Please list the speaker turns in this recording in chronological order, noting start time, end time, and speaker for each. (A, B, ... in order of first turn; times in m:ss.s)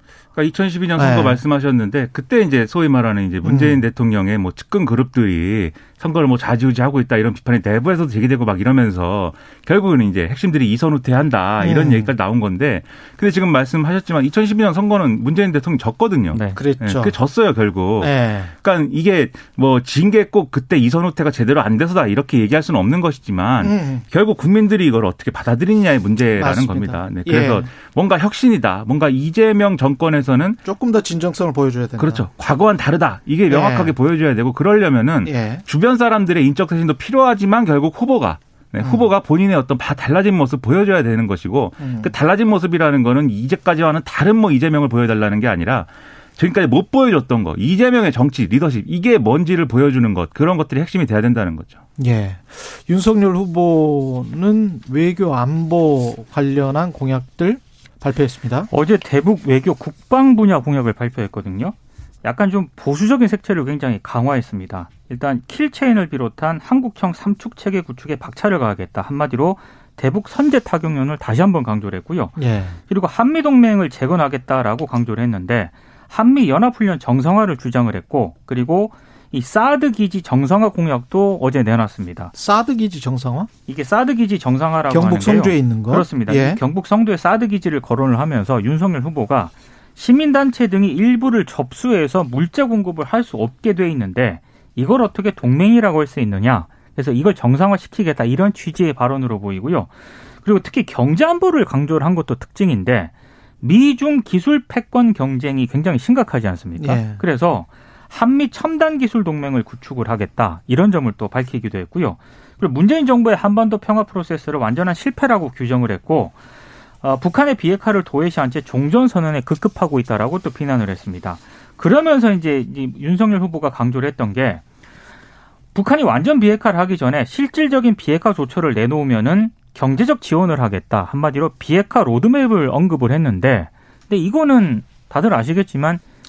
0:00.4-0:30.6 A
0:01.0-0:01.4 B
0:03.4-0:03.8 B
0:11.6-0:12.1 B
0:16.3-0:16.6 C
0:16.6-0:17.1 B
0:18.0-0:18.5 B
0:23.6-0:24.0 B
0:26.4-0:27.7 B
0:30.6-0:32.3 B
0:32.0-0:51.8 A
0:33.5-0:33.9 B
0:35.2-0:35.6 B
0:38.8-0:39.1 B
0:41.8-0:42.1 B
0:52.0-0:58.7 B
0:58.7-1:22.3 C
1:12.4-1:12.8 B
1:22.3-1:23.5 B
1:23.7-1:56.4 C
1:24.9-1:26.6 B
1:46.8-1:47.2 B
1:57.0-2:04.6 C
2:05.7-2:16.0 C